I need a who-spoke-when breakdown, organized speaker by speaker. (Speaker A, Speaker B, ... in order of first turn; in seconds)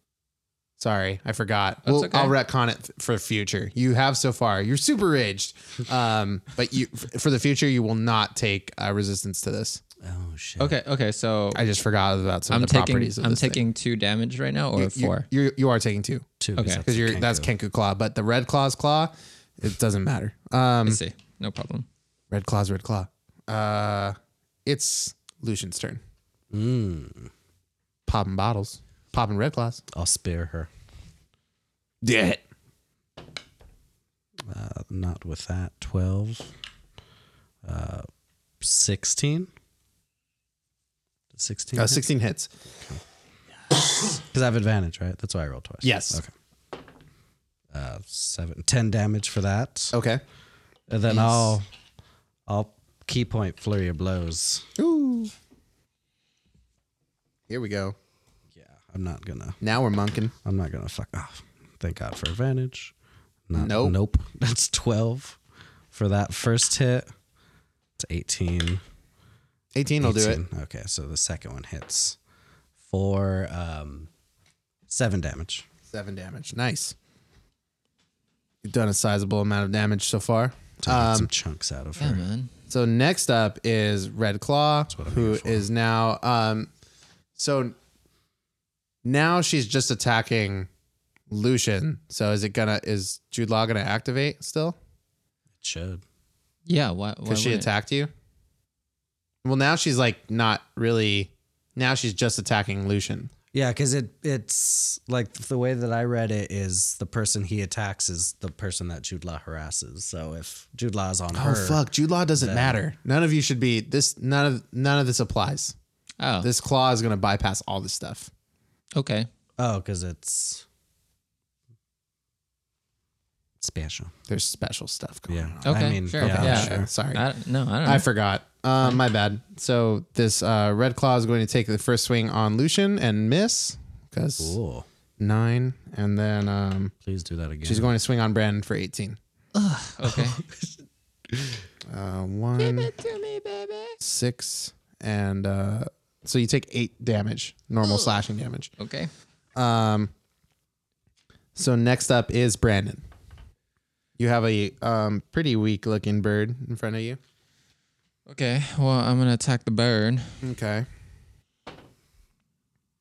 Speaker A: 0.8-9.8, 11.6-13.6, 14.8-16.3, 16.8-21.0, 22.3-26.0, 28.1-29.8, 32.0-32.4, 41.8-42.5, 45.8-46.2, 49.9-50.2, 51.1-51.5, 54.8-55.3, 57.5-58.0, 59.6-60.3, 63.5-64.0, 69.8-70.4, 75.9-77.0, 78.6-81.3, 82.7-86.7, 87.4-87.7, 89.0-90.7, 91.3-94.8, 97.3-98.1, 99.4-103.3, 111.3-115.8, 116.4-118.3, 124.3-127.2, 127.8-134.6, 135.2-136.9, 137.6-139.2, 141.9-142.9, 144.0-148.7, 149.6-150.1, 151.6-153.0, 154.2-157.2, 160.4-160.9
Speaker B: 1.8-2.4, 10.6-11.6, 12.5-15.3, 16.6-16.8, 20.9-21.9, 82.0-82.5, 96.7-97.7, 116.2-116.5, 119.0-119.3, 125.7-128.1, 139.6-140.4, 142.6-144.0, 148.8-149.1, 158.3-160.4
Speaker C: 10.0-10.8, 16.4-17.5, 26.5-27.3, 29.9-30.7, 34.5-36.5, 37.6-38.1, 38.6-39.5, 41.3-42.0, 44.0-46.3, 47.7-50.0, 50.9-51.7, 52.5-54.7, 58.5-59.6, 60.4-62.9, 63.5-65.4, 65.9-67.1, 68.0-68.8, 70.0-72.2, 72.8-74.1, 74.9-75.7, 80.8-82.2, 84.9-85.7, 95.6-96.0, 103.5-111.8, 112.4-112.8, 119.6-120.7, 123.6-124.1, 125.3-126.9, 134.4-134.9, 137.1-137.9, 140.1-140.8, 141.3-141.6